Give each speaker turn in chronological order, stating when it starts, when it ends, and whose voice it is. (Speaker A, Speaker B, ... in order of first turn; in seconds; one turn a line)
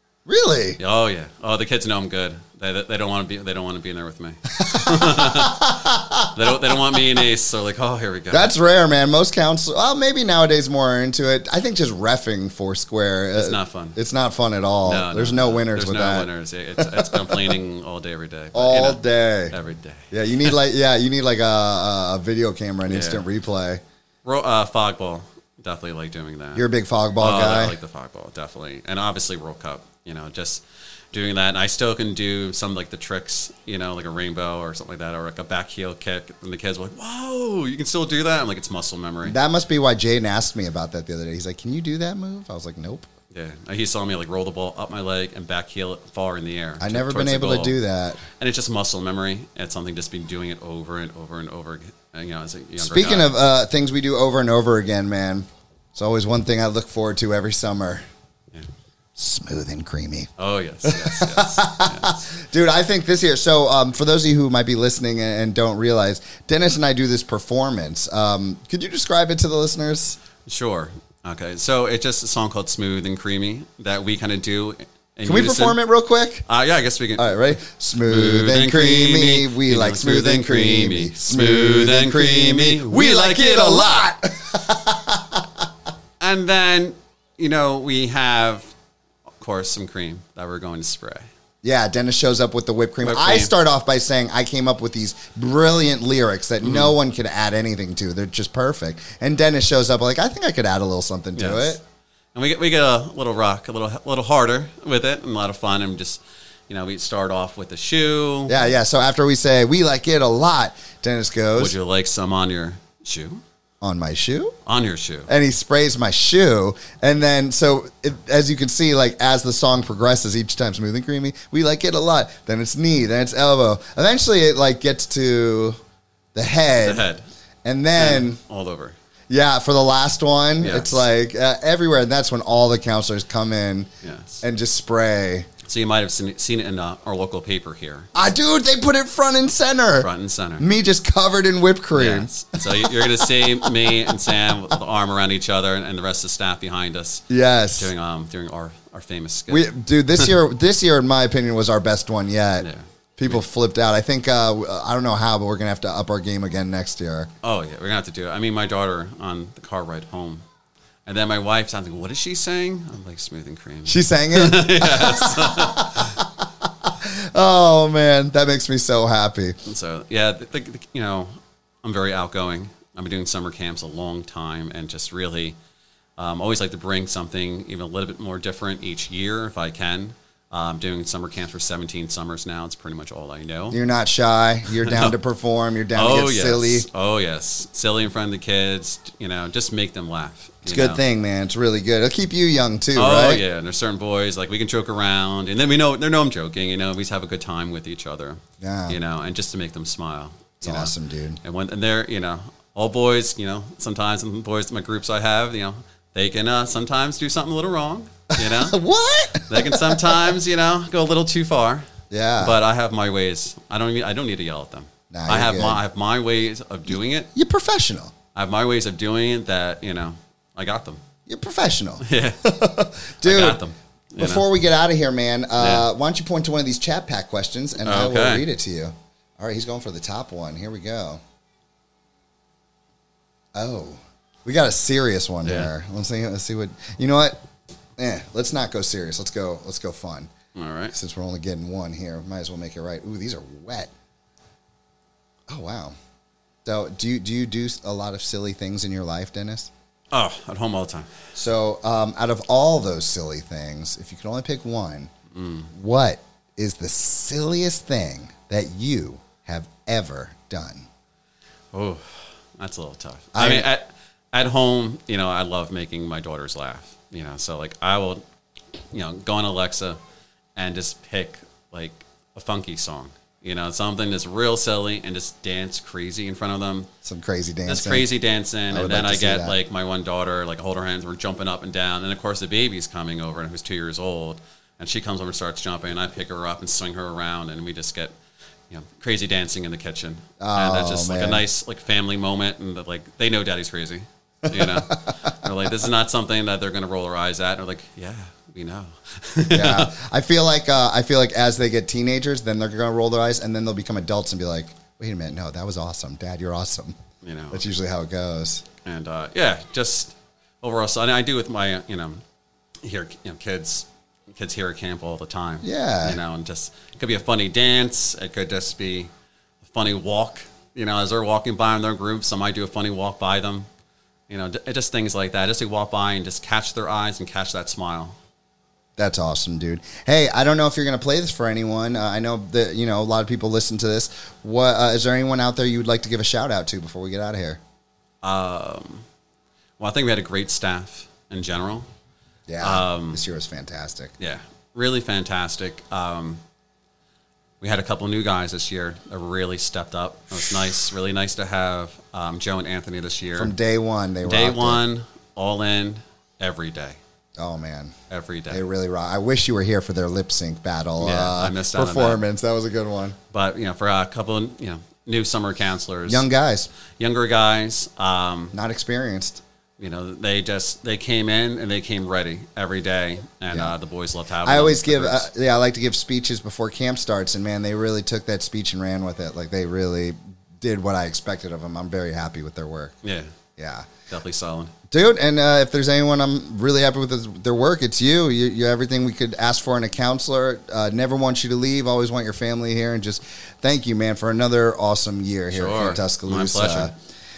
Speaker A: 0.3-0.8
Speaker B: 0.8-8.5
Speaker A: 4.6-6.3
Speaker A: 8.3-17.6
Speaker B: 13.3-14.0
Speaker B: 14.8-20.6
Speaker A: 18.5-19.5
Speaker A: 20.1-23.8
Speaker B: 22.9-23.2
Speaker B: 24.2-39.4
Speaker A: 26.6-27.8
Speaker A: 39.2-43.1
Speaker B: 43.3-47.8
Speaker A: 46.8-48.2
Speaker B: 48.4-53.3
Speaker A: 52.8-58.0
Speaker A: 59.2-60.3
Speaker B: 60.4-62.3
Speaker A: 60.9-70.2
Speaker B: 70.5-75.8
Speaker A: 75.2-76.5
Speaker B: 76.5-84.1
Speaker A: 77.2-85.5
Speaker B: 86.2-88.7
Speaker B: 89.4-91.3
Speaker A: 91.6-101.8
Speaker B: 93.0-93.5
Speaker B: 96.6-97.0
Speaker B: 101.4-101.8
Speaker B: 102.3-108.6
Speaker A: 108.5-111.8
Speaker B: 111.6-113.4
Speaker A: 113.8-114.5
Speaker B: 114.7-115.3
Speaker A: 115.3-125.8
Speaker A: 126.3-127.0
Speaker B: 126.7-127.3
Speaker A: 127.7-128.4
Speaker B: 128.0-129.0
Speaker A: 129.3-133.9
Speaker B: 130.6-131.1
Speaker B: 134.0-134.4
Speaker A: 134.4-135.5
Speaker B: 135.7-138.1
Speaker A: 138.1-140.1
Speaker B: 139.9-140.7
Speaker A: 140.6-144.6
Speaker B: 141.9-147.2
Speaker A: 147.3-147.9
Speaker B: 147.8-150.3
Speaker A: 149.5-157.3
Speaker B: 152.6-153.4
Speaker B: 157.4-160.4
Speaker B: 161.1-166.2
Speaker A: 163.9-169.6
Speaker B: 169.7-175.6
Speaker B: 176.2-183.8
Speaker A: 183.7-186.9
Speaker B: 184.7-185.1
Speaker B: 185.9-191.0
Speaker A: 190.7-193.4
Speaker B: 192.9-208.8
Speaker A: 198.6-199.0
Speaker A: 200.6-201.4
Speaker A: 208.4-210.4
Speaker B: 209.5-211.9
Speaker A: 212.1-212.6
Speaker B: 212.4-217.3
Speaker A: 215.1-215.8
Speaker A: 217.3-218.1
Speaker B: 218.3-221.0
Speaker A: 221.3-223.6
Speaker B: 222.0-222.5
Speaker B: 223.2-224.5
Speaker A: 224.2-231.2
Speaker B: 225.6-225.9
Speaker B: 227.8-228.5
Speaker A: 233.6-237.4
Speaker B: 235.4-235.7
Speaker A: 238.0-240.3
Speaker B: 240.6-240.9
Speaker A: 240.9-243.9
Speaker A: 245.5-245.9
Speaker A: 246.7-249.7
Speaker B: 250.1-251.2
Speaker A: 251.4-255.1
Speaker B: 255.3-255.7
Speaker A: 255.7-260.9
Speaker B: 261.7-268.2
Speaker A: 263.3-263.7
Speaker B: 268.9-270.0
Speaker B: 270.6-276.9
Speaker A: 277.1-278.1
Speaker B: 277.7-288.1
Speaker A: 278.7-279.6
Speaker B: 288.7-300.0
Speaker A: 290.4-291.4
Speaker A: 294.5-295.1
Speaker A: 299.5-307.0
Speaker B: 307.2-307.6
Speaker A: 307.5-308.6
Speaker B: 308.8-312.2
Speaker B: 312.8-319.1
Speaker A: 315.6-316.2
Speaker B: 319.6-323.7
Speaker B: 324.3-328.2
Speaker A: 329.0-337.6
Speaker B: 338.2-339.0
Speaker B: 339.8-341.9
Speaker A: 342.5-344.1
Speaker B: 342.6-343.2
Speaker B: 344.2-346.4
Speaker B: 347.6-353.5
Speaker A: 353.4-354.8
Speaker B: 354.2-357.0
Speaker A: 357.4-357.9
Speaker B: 358.1-358.6
Speaker A: 358.5-363.2
Speaker B: 361.0-362.2
Speaker B: 363.3-366.3
Speaker A: 366.1-366.7
Speaker B: 367.0-368.6
Speaker A: 368.5-369.4
Speaker B: 369.8-375.3
Speaker A: 374.4-383.0
Speaker B: 383.0-383.3
Speaker A: 383.6-383.9
Speaker B: 384.1-384.7
Speaker A: 384.9-396.9
Speaker B: 395.5-396.9